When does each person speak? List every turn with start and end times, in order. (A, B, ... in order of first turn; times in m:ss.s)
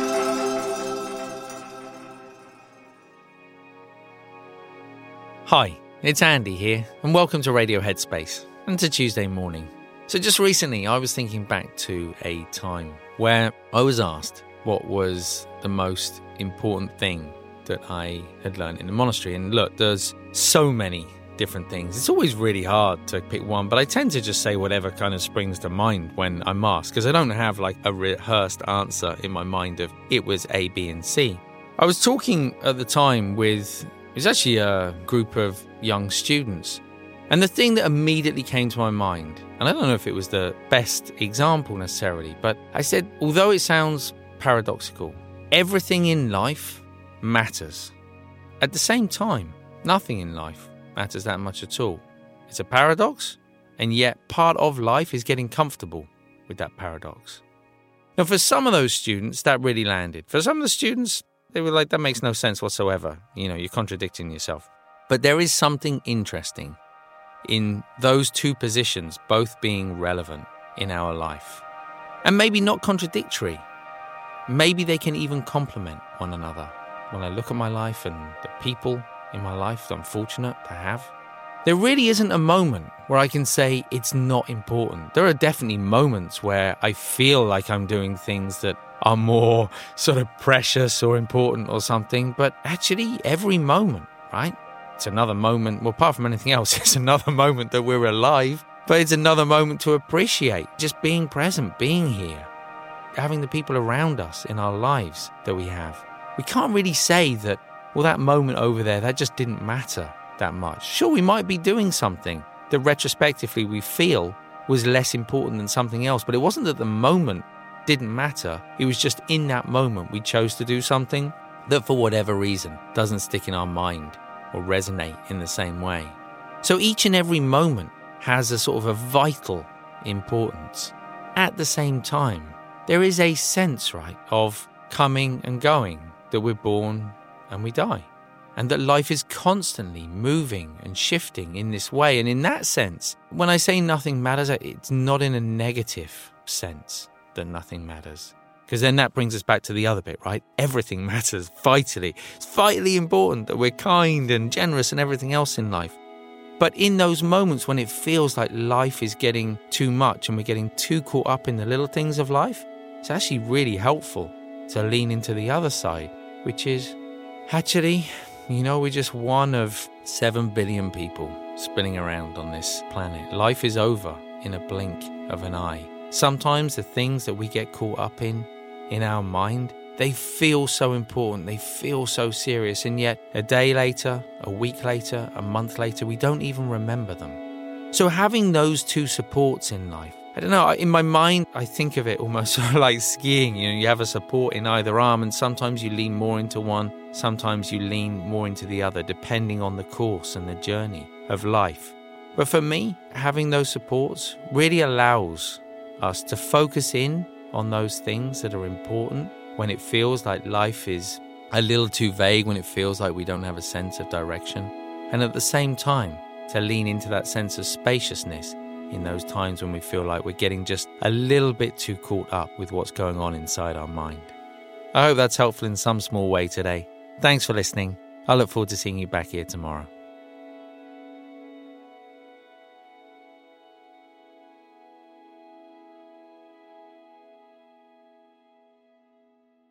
0:05.5-0:48.0 A
0:48.6-0:57.4 A
0:58.2-1:06.8 A
1:07.4-1:11.6 A
1:12.2-1:13.7 A
1:14.5-1:21.1 A
1:21.6-1:42.5 A
1:43.2-2:36.0 A
2:36.6-3:44.4 A
3:44.9-3:49.9 A